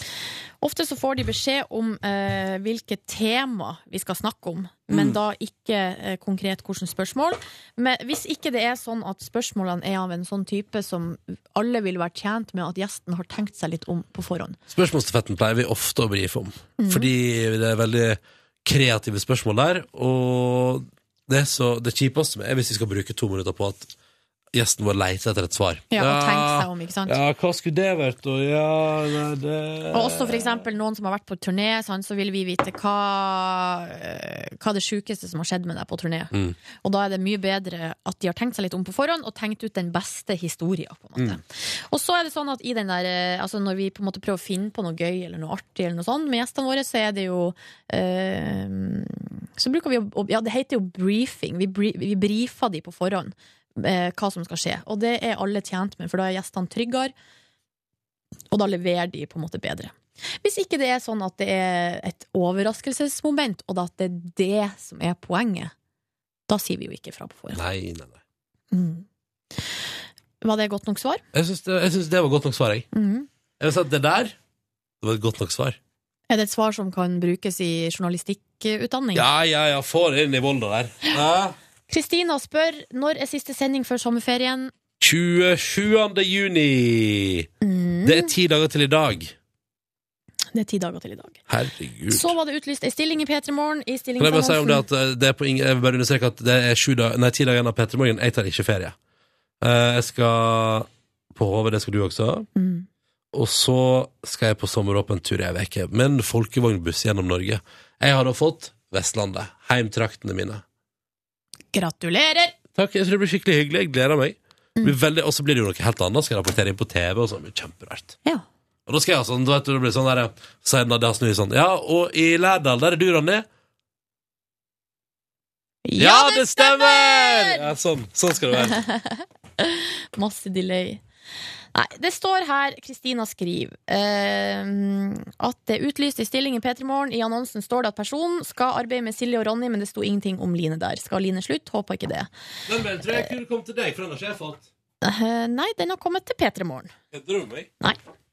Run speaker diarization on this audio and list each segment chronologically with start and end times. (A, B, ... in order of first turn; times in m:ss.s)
0:00.6-0:14.6 A
0:04.9-0:05.2 B
0:14.7-0:23.9 B
0:16.8-0:17.1 A
0:24.5-0:30.6 B
0:25.9-0:27.2 A
0:29.9-0:57.1 A
0:58.5-1:05.7 A
1:06.5-1:07.6 A
1:07.5-1:08.2 B
1:08.7-1:09.0 A
1:10.4-1:11.2 A
1:11.3-1:12.9 B
1:12.9-1:13.3 A
1:13.6-1:14.3 B
1:15.0-1:15.8 B
1:16.3-1:19.3 A
1:19.1-1:21.6 B
1:21.9-1:24.7 A
1:25.0-1:27.5 B
1:27.6-1:28.3 A
1:28.0-1:29.3 B
1:30.5-1:31.4 A
1:31.5-1:32.3 B
1:32.1-1:34.8 A
1:34.2-1:38.9 B
1:39.6-1:42.5 B
1:42.6-1:42.8 A
1:43.3-1:50.6 B
1:51.7-1:52.5 A
1:52.7-1:58.2 B
1:58.9-2:03.4 B
2:05.8-2:07.6 A
2:06.0-2:08.8 B
2:08.6-2:11.0 A
2:11.7-2:22.3 A
2:22.7-2:24.7 B
2:25.0-2:26.9 A
2:27.1-2:27.7 B